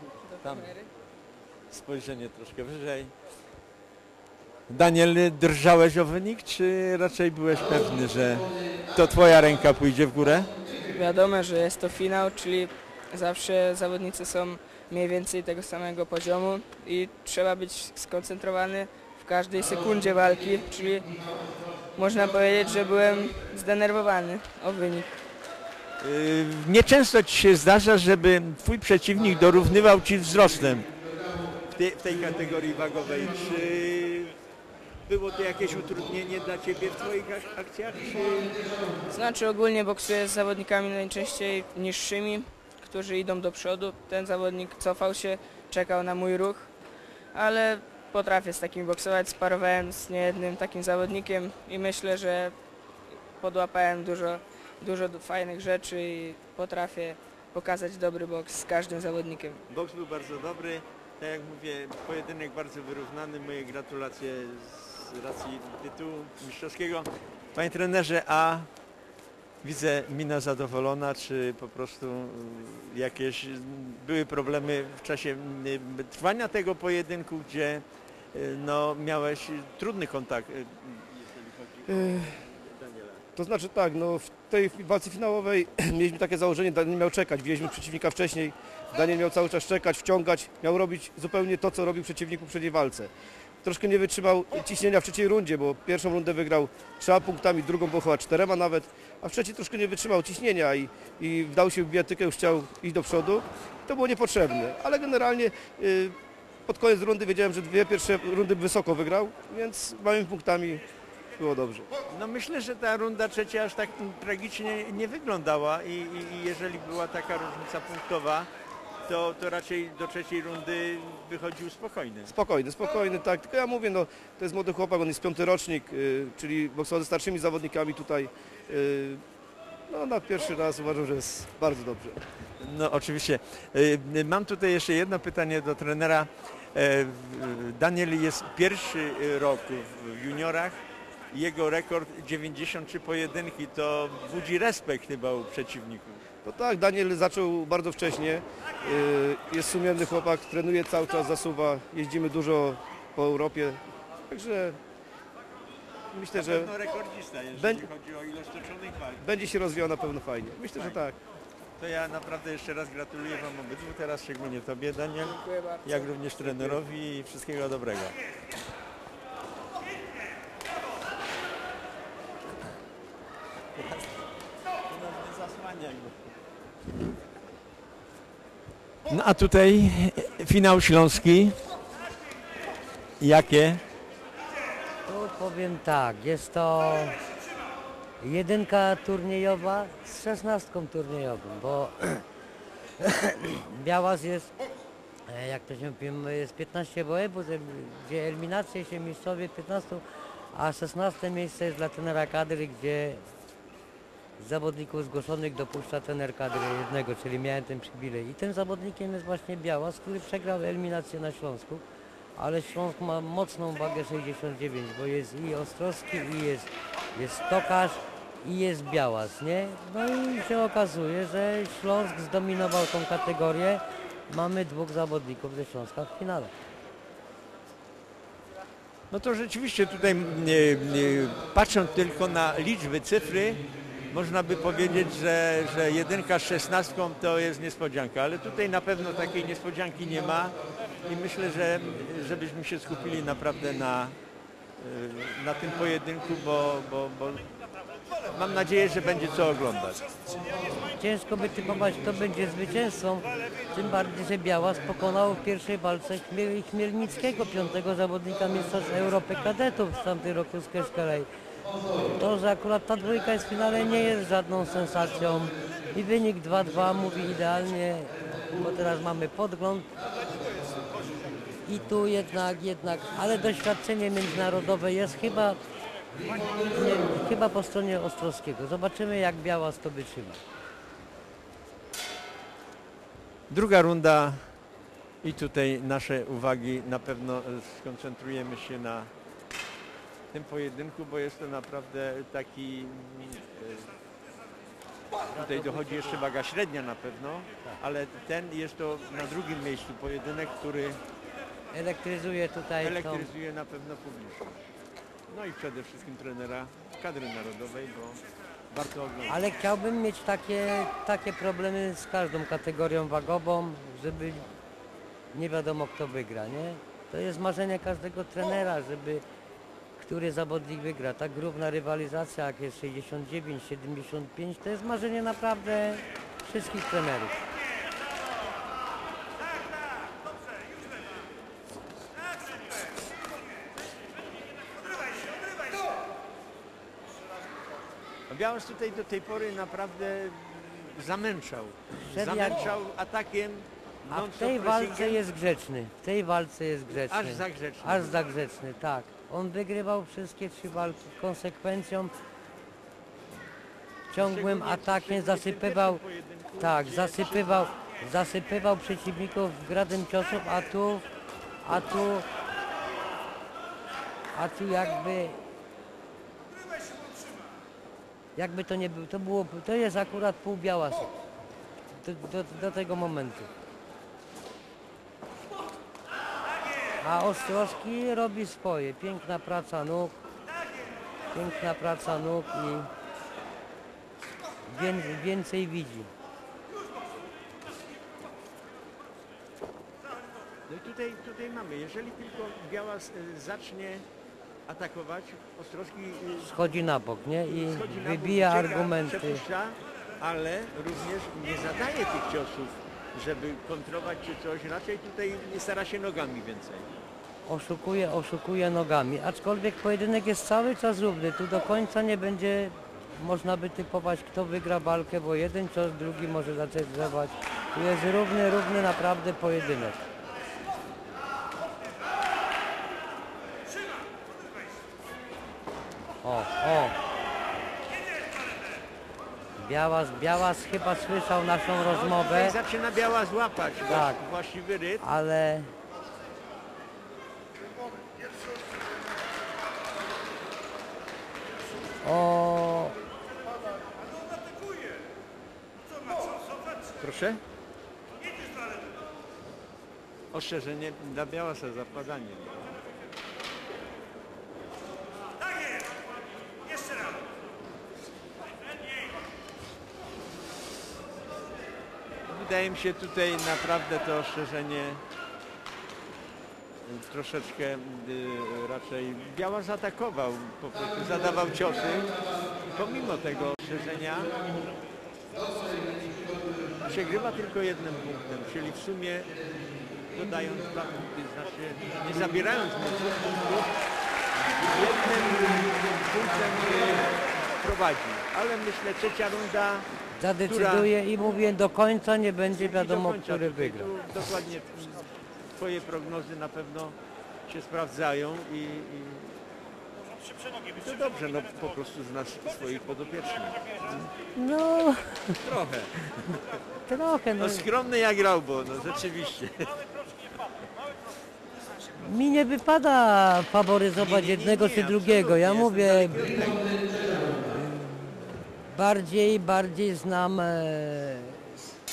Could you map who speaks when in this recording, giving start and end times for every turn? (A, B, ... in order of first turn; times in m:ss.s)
0:00.2-0:00.9 A
0:00.3-0:00.8 B
0:01.7-0:03.1 B
0:04.7-0:10.5 B
0:10.9-0:21.1 A
0:22.0-0:25.1 A
0:26.0-0:30.9 B
0:31.8-0:34.4 B
0:35.1-0:38.6 B
0:39.1-0:46.7 A
0:47.3-0:52.6 A
0:53.4-0:59.6 A
0:59.7-1:08.7 B
1:09.6-1:23.2 B
1:23.4-1:33.1 C
1:33.6-1:46.2 C
1:46.7-1:50.8 C
1:51.4-1:51.9 C
1:52.1-1:58.5 B
1:59.1-2:02.4 B
2:02.3-2:09.2 C
2:09.9-2:12.2 C
2:12.6-2:20.8 B
2:21.3-2:26.2 B
2:26.4-2:34.8 C
2:36.2-2:36.7 C
2:36.3-2:39.2 B
2:37.5-2:37.9 C
2:39.2-2:41.2 C
2:41.8-2:48.2 B
2:45.2-2:46.8 A
2:53.8-2:54.0 B
2:54.9-2:56.2 B
2:59.1-3:01.6 B
3:03.2-3:03.8 B
3:05.1-3:07.2 D
3:08.2-3:12.2 D
3:13.0-3:14.5 D
3:15.3-3:23.2 D
3:24.4-3:31.8 D
3:32.4-3:46.5 D
3:49.1-4:04.2 B
4:04.8-4:07.5 B
4:08.3-4:10.0 B
4:11.0-4:21.3 D
4:22.0-4:29.9 D
4:31.6-4:35.6 D
4:36.5-4:40.4 D
4:43.5-4:44.5 B
4:45.2-4:49.1 B
4:50.3-4:54.0 B
4:55.3-4:56.2 D
4:55.3-5:01.0 B
5:01.7-5:03.3 D
5:02.8-5:04.6 B
5:05.3-5:09.5 B
5:09.3-5:14.5 D
5:15.3-5:19.2 D
5:20.0-5:27.4 D
5:38.3-5:45.2 B
5:42.0-5:42.8 D
5:44.1-5:52.1 D
5:46.9-5:48.2 B
5:54.1-5:56.0 D
5:54.2-5:57.7 B
5:56.6-6:01.0 D
6:01.6-6:02.3 D
6:04.3-6:05.4 D
6:08.4-6:11.1 D
6:11.9-6:13.5 D
6:17.0-6:20.2 D
6:21.3-6:22.9 D
6:24.7-6:26.1 D
6:30.7-6:34.0 B
6:34.7-6:36.5 B
6:36.4-6:39.4 D
6:37.6-6:46.9 B
6:47.5-7:00.0 D
7:06.2-7:07.0 D
7:09.6-7:12.6 D
7:11.9-7:15.0 B
7:13.9-7:14.2 D
7:15.0-7:15.7 D
7:22.0-7:23.0 D
7:27.0-7:27.4 B
7:30.3-7:32.7 B
7:42.3-7:45.0 B
7:46.8-7:52.2 B
7:52.7-7:54.4 B
7:56.9-7:59.4 B
8:00.1-8:03.7 B
8:04.6-8:07.1 B
8:07.6-8:09.9 B
8:10.2-8:13.9 D
8:10.5-8:10.9 B
8:12.5-8:15.0 B
8:15.6-8:17.0 B
8:17.5-8:19.4 B
8:20.8-8:23.6 B
8:24.4-8:25.4 D
8:25.4-8:26.4 B
8:26.9-8:27.7 D
8:27.4-8:29.7 B
8:32.0-8:36.2 D
8:34.0-8:36.6 B
8:37.5-8:41.6 D